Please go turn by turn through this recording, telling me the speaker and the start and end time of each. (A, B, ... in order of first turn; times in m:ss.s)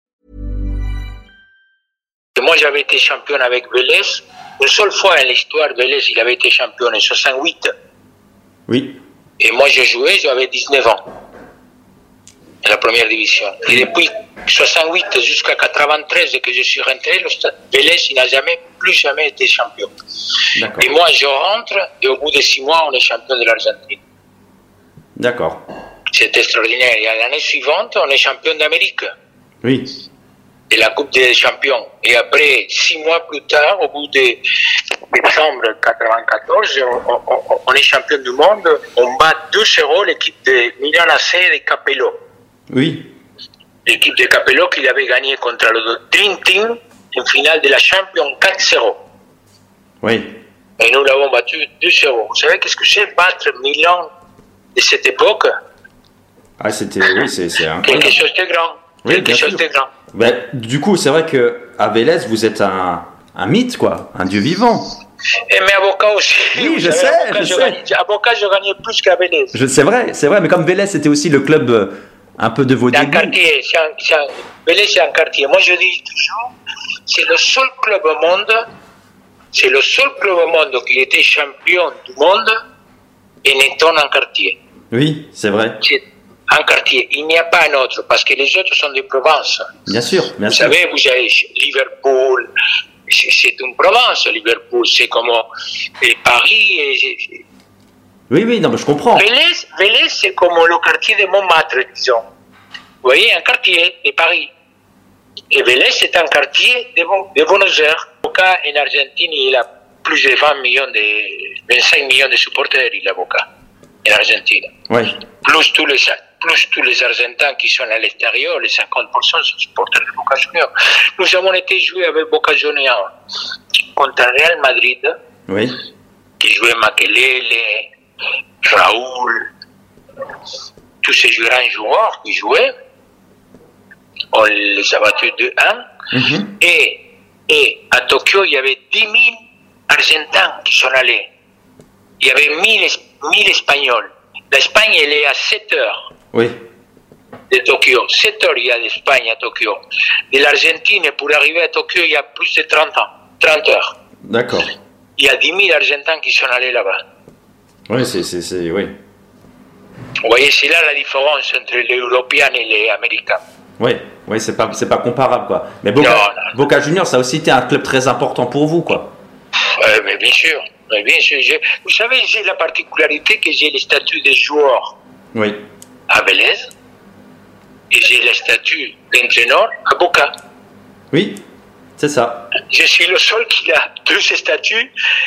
0:02.4-0:07.7 A
0:08.7-0:09.0 B
0:09.4-0:11.0 A
0:12.6-0:24.0 A
0:20.6-0:20.9 B
0:25.2-0:25.6 B
0:26.1-0:29.1 A
0:29.6-0:29.9 B
0:30.7-0:34.4 A
0:35.1-0:42.2 A
0:42.7-0:43.1 B
0:43.9-0:49.0 A
0:50.0-0:50.4 B
0:50.8-0:54.1 A
0:54.8-0:55.5 A
0:56.6-0:58.2 B
0:57.8-0:59.9 A
0:59.0-1:04.9 B
1:05.5-1:09.6 A
1:06.5-1:07.8 B
1:09.5-1:13.4 B
1:12.9-1:16.5 A
1:17.1-1:18.7 A
1:19.5-1:22.6 A
1:23.4-1:24.6 A
1:24.9-1:25.8 B
1:25.8-1:29.7 A
1:29.9-1:30.8 B
1:30.5-1:32.5 A
1:33.1-1:35.5 A
1:36.0-1:37.4 A
1:38.3-1:39.3 B
1:39.2-1:42.3 A
1:43.0-1:44.5 A
1:45.5-1:53.5 A
1:54.0-1:54.7 A
1:54.9-1:55.2 B
1:55.4-2:03.1 A
2:04.0-2:05.2 A
2:05.5-2:05.8 B
2:06.4-2:07.9 A
2:08.6-2:09.5 A
2:11.0-2:12.7 A
2:14.3-2:15.9 A
2:16.1-2:16.5 B
2:16.6-2:19.4 A
2:19.9-2:21.3 A
2:22.2-2:26.0 A
2:26.3-2:26.6 B
2:27.5-2:29.8 A
2:30.3-2:33.9 A
2:34.3-2:34.7 B
2:35.2-2:37.0 A
2:37.9-2:39.0 B
2:40.2-2:43.4 A
2:43.8-2:49.1 B
2:46.0-2:46.6 A
2:49.8-2:55.0 A
2:55.3-2:55.6 B
2:56.1-2:56.7 A
2:57.9-3:00.3 A
3:01.1-3:01.4 B
3:02.0-3:02.5 B
3:02.7-3:04.9 A